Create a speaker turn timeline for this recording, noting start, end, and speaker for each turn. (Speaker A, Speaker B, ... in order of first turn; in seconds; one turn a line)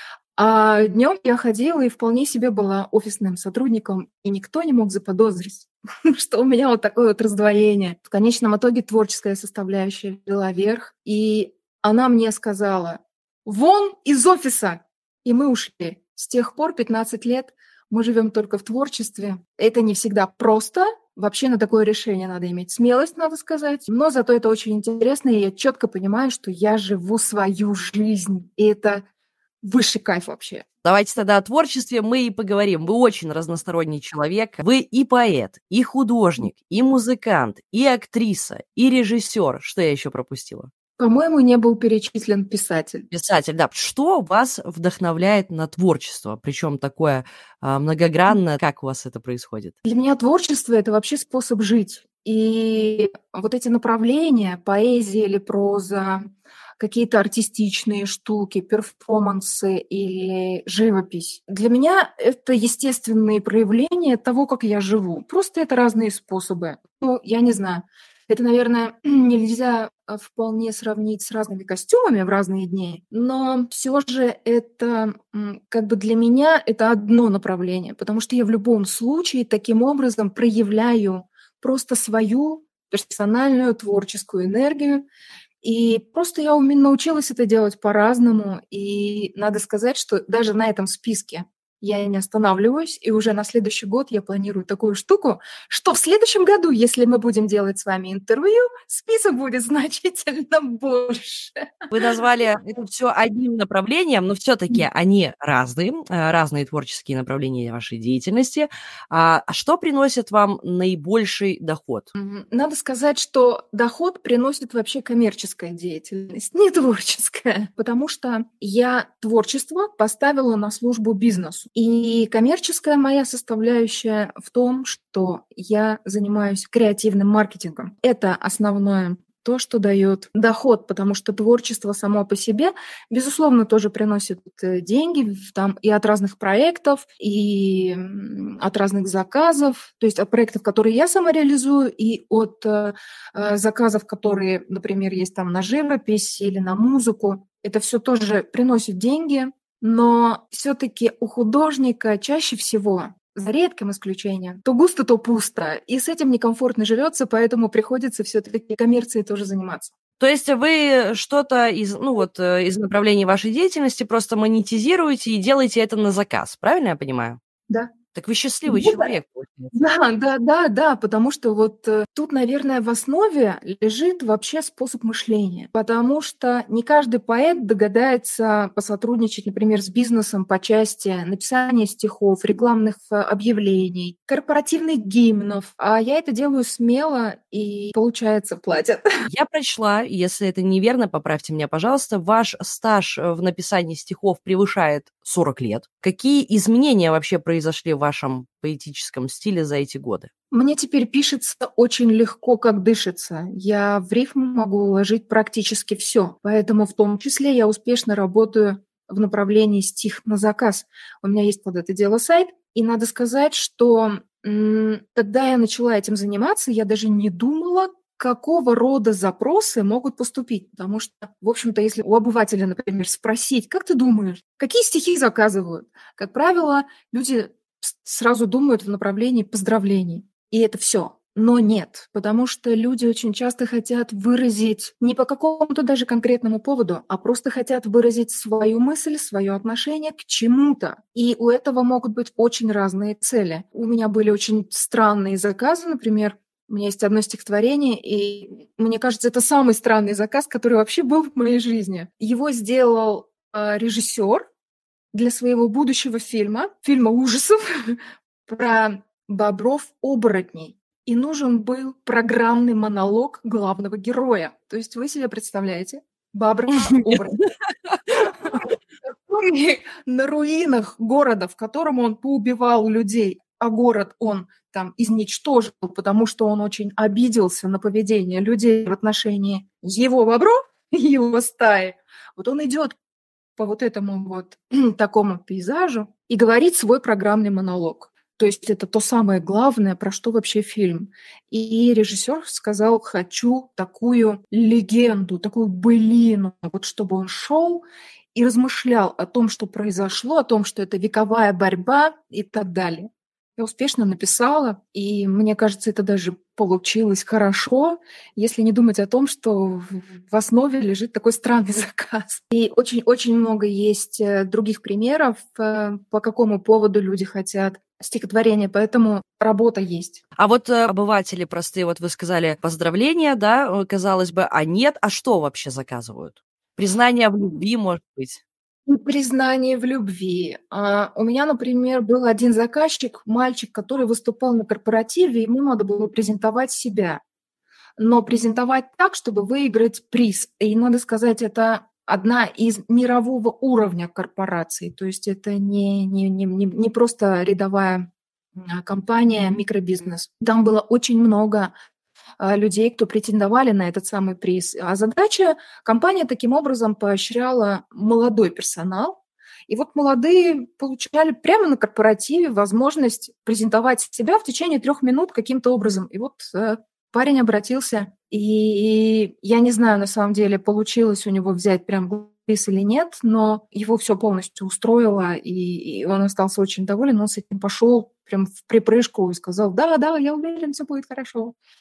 Speaker A: 0.4-29.1
Speaker A: 29.6-30.6
Speaker B: 30.8-40.7
Speaker A: 41.0-43.1
Speaker B: 43.1-49.8
Speaker A: 49.8-56.3
Speaker A: 56.8-85.0
Speaker A: 85.6-102.1
Speaker B: 101.9-112.1
Speaker A: 112.2-159.9
Speaker B: 160.2-167.4
Speaker B: 168.1-169.7
Speaker A: 168.7-169.1
Speaker A: 169.7-189.0
Speaker B: 189.3-200.3
Speaker A: 200.5-254.5
Speaker A: 255.1-267.4
Speaker B: 266.9-267.2
Speaker A: 268.1-282.9
Speaker A: 283.6-297.8
Speaker A: 298.3-320.2
Speaker B: 320.4-328.4
Speaker A: 328.9-337.2
Speaker A: 338.0-351.7
Speaker A: 352.4-359.2
Speaker A: 359.7-381.6